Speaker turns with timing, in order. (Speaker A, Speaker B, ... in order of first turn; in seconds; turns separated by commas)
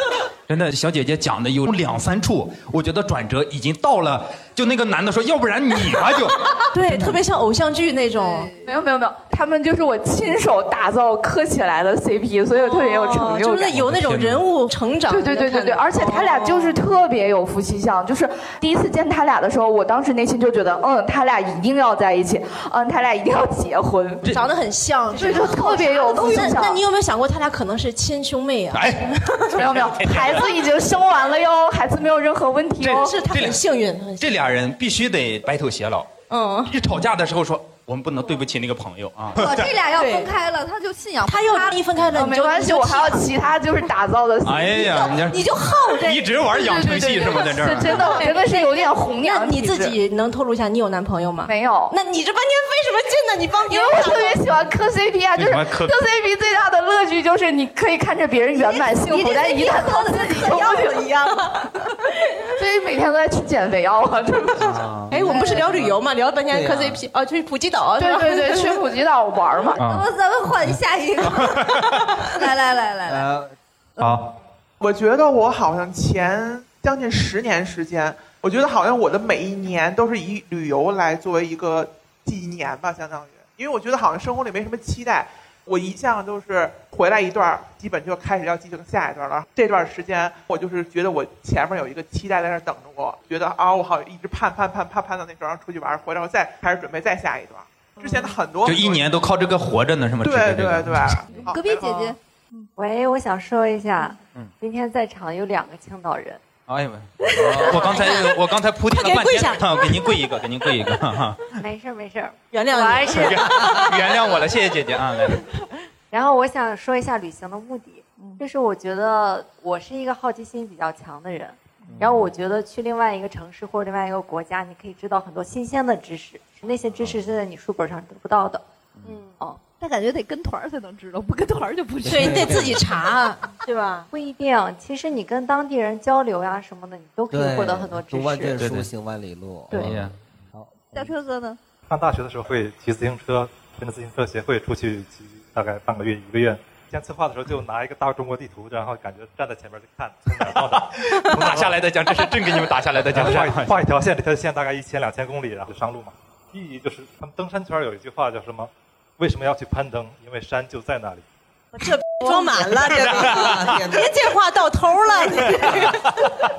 Speaker A: 0.5-7.2, Speaker B: 6.7-8.5, Speaker C: 8.6-13.8, Speaker B: 12.6-16.8, Speaker A: 13.7-14.4, Speaker C: 15.1-24.2, Speaker B: 24.3-29.6, Speaker C: 25.1-26.8, Speaker D: 25.2-26.1, Speaker A: 28.7-30.4, Speaker C: 29.6-33.2, Speaker A: 32.8-33.6, Speaker B: 32.9-34.3, Speaker A: 34.2-36.1, Speaker B: 36.3-36.7, Speaker A: 36.7-39.6, Speaker D: 39.4-41.8, Speaker B: 39.9-40.3, Speaker B: 41.3-43.3, Speaker C: 42.1-45.3, Speaker A: 44.5-48.2, Speaker B: 45.2-46.1, Speaker C: 46.1-50.0, Speaker B: 47.4-54.4, Speaker C: 51.5-52.0, Speaker C: 53.7-61.1, Speaker A: 55.4-55.9, Speaker D: 58.5-61.1, Speaker B: 60.0-61.6, Speaker C: 62.5-64.6, Speaker B: 65.1-68.8, Speaker D: 65.2-65.6, Speaker E: 66.5-67.0, Speaker C: 68.0-69.8, Speaker A: 69.8-70.1, Speaker D: 69.8-73.3, Speaker E: 73.1-73.5, Speaker A: 74.0-74.3, Speaker F: 74.8-99.1, Speaker A: 98.6-101.2, Speaker F: 100.2-102.1, Speaker D: 101.3-102.6, Speaker G: 102.8-106.4, Speaker A: 106.7-111.6, Speaker B: 107.3-108.4, Speaker B: 108.9-110.0, Speaker G: 111.6-113.4, Speaker B: 112.5-114.0, Speaker A: 113.0-115.4, Speaker G: 116.1-128.6, Speaker B: 129.1-129.3, Speaker D: 129.8-132.6, Speaker E: 132.0-132.8, Speaker B: 132.1-134.1, Speaker G: 134.1-138.6, Speaker E: 137.3-140.0, Speaker A: 138.6-138.9, Speaker A: 139.7-140.1, Speaker E: 140.5-141.1, Speaker D: 140.9-141.6, Speaker H: 141.9-151.7, Speaker A: 150.9-153.8, Speaker H: 153.1-161.2, Speaker B: 161.7-166.1, Speaker E: 162.9-164.1